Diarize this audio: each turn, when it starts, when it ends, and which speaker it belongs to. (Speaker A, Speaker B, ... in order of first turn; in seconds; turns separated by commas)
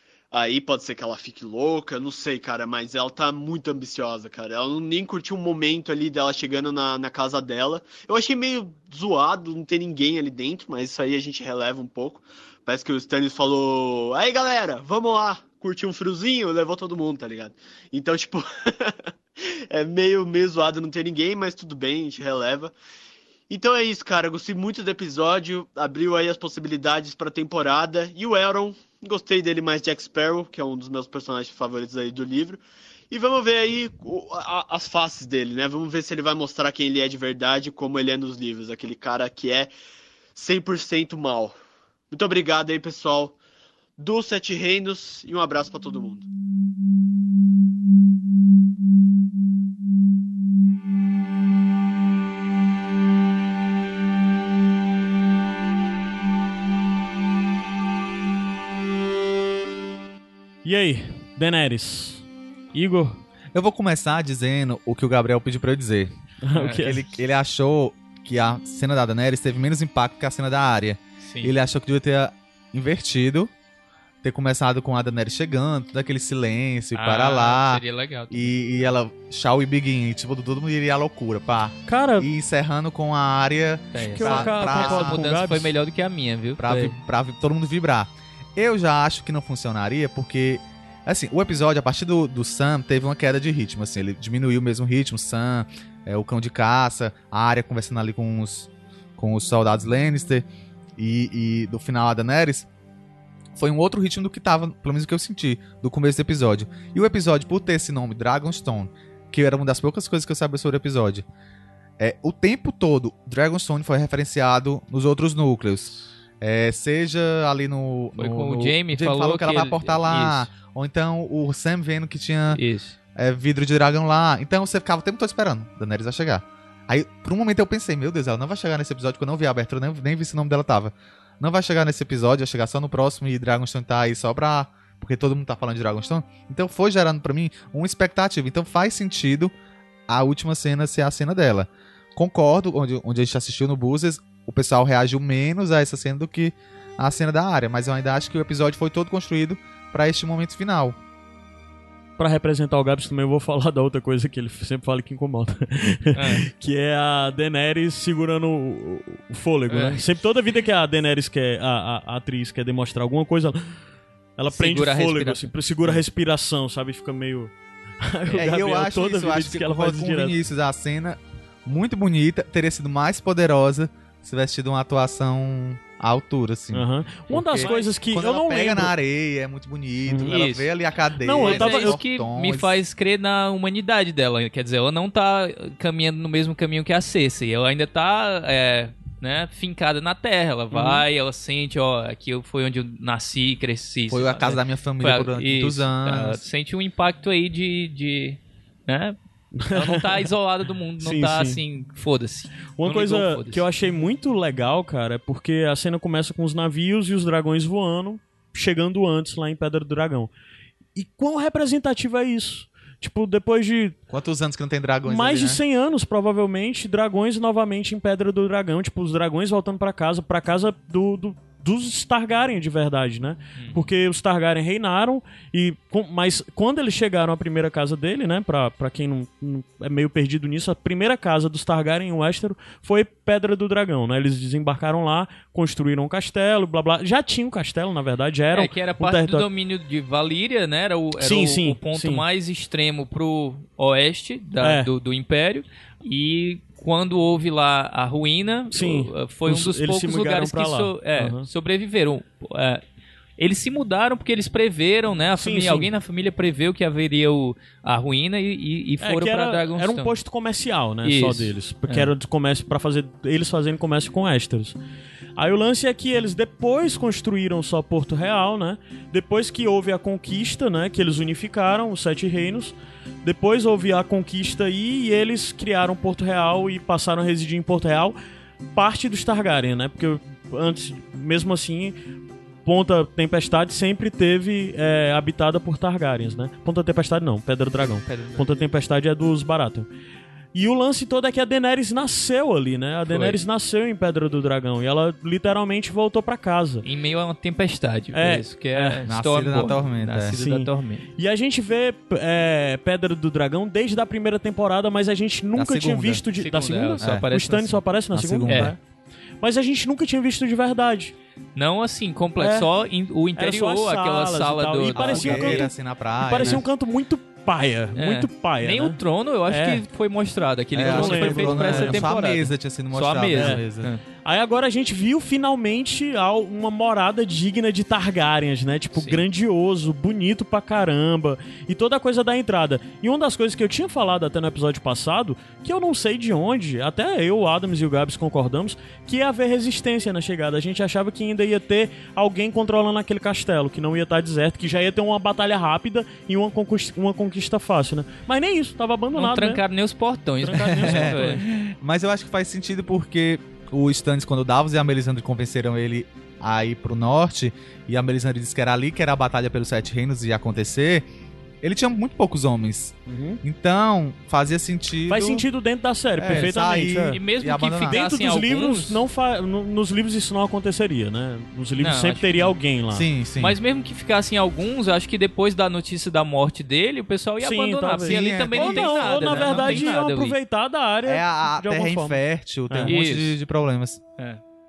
Speaker A: 0.3-22.7, Speaker A: 23.5-39.7, Speaker A: 40.3-41.6, Speaker A: 42.1-43.3, Speaker A: 44.0-46.2, Speaker B: 60.6-63.2, Speaker C: 63.5-66.1, Speaker B: 66.4-67.0, Speaker D: 66.5-66.9, Speaker C: 66.6-73.5, Speaker D: 71.2-71.5, Speaker C: 74.2-85.2, Speaker D: 76.9-78.8, Speaker B: 81.9-82.3, Speaker D: 83.9-87.0, Speaker B: 84.0-85.7, Speaker C: 86.6-100.5, Speaker C: 101.0-102.7, Speaker C: 103.5-111.2, Speaker C: 112.0-122.6, Speaker D: 118.2-120.5, Speaker D: 122.5-123.0, Speaker C: 123.2-139.5, Speaker C: 140.1-150.9, Speaker B: 152.2-163.8, Speaker D: 156.1-156.5, Speaker D: 159.7-160.0, Speaker B: 164.4-167.5, Speaker D: 164.5-166.0, Speaker B: 168.0-170.3, Speaker C: 168.3-182.8, Speaker B: 176.7-178.9, Speaker D: 177.6-178.0, Speaker D: 180.3-180.7, Speaker B: 181.2-182.0, Speaker D: 181.4-199.2, Speaker B: 190.7-191.0, Speaker C: 194.1-196.4, Speaker B: 199.6-200.2, Speaker D: 199.7-203.6, Speaker B: 201.0-201.6, Speaker B: 202.8-210.3, Speaker B: 210.9-214.0, Speaker C: 214.1-215.6, Speaker B: 215.0-239.4, Speaker D: 223.6-223.8, Speaker D: 238.5-252.8, Speaker B: 241.2-242.2, Speaker B: 244.6-244.9, Speaker B: 248.7-251.5, Speaker D: 253.4-260.1, Speaker B: 255.4-255.9, Speaker B: 259.0-264.8, Speaker D: 261.0-262.1, Speaker B: 265.4-278.2, Speaker B: 278.7-281.9, Speaker B: 282.6-289.9, Speaker D: 288.1-288.5, Speaker B: 290.5-296.8, Speaker D: 293.1-293.4, Speaker D: 296.8-301.1, Speaker B: 298.1-299.0, Speaker C: 299.1-300.4, Speaker B: 300.3-308.8, Speaker C: 305.5-306.2, Speaker D: 306.3-307.8, Speaker C: 307.0-307.3, Speaker C: 308.1-308.7, Speaker D: 308.5-308.8, Speaker B: 309.4-311.1, Speaker D: 311.5-315.7, Speaker B: 312.4-312.7, Speaker B: 313.4-319.8, Speaker C: 314.9-316.6, Speaker D: 317.9-324.0, Speaker C: 320.7-323.9, Speaker B: 320.8-322.1, Speaker B: 323.3-323.6, Speaker B: 324.2-349.6, Speaker D: 328.9-329.2, Speaker D: 349.1-351.4, Speaker B: 350.4-351.4, Speaker C: 350.7-361.1, Speaker C: 361.6-365.4, Speaker B: 363.1-363.4, Speaker B: 365.1-367.2, Speaker C: 366.2-368.0, Speaker D: 367.1-369.0, Speaker B: 367.9-373.1, Speaker D: 371.8-372.5, Speaker C: 372.9-373.6, Speaker D: 373.4-380.3, Speaker B: 377.4-382.2, Speaker C: 378.1-379.9, Speaker C: 381.0-384.0, Speaker D: 382.8-383.4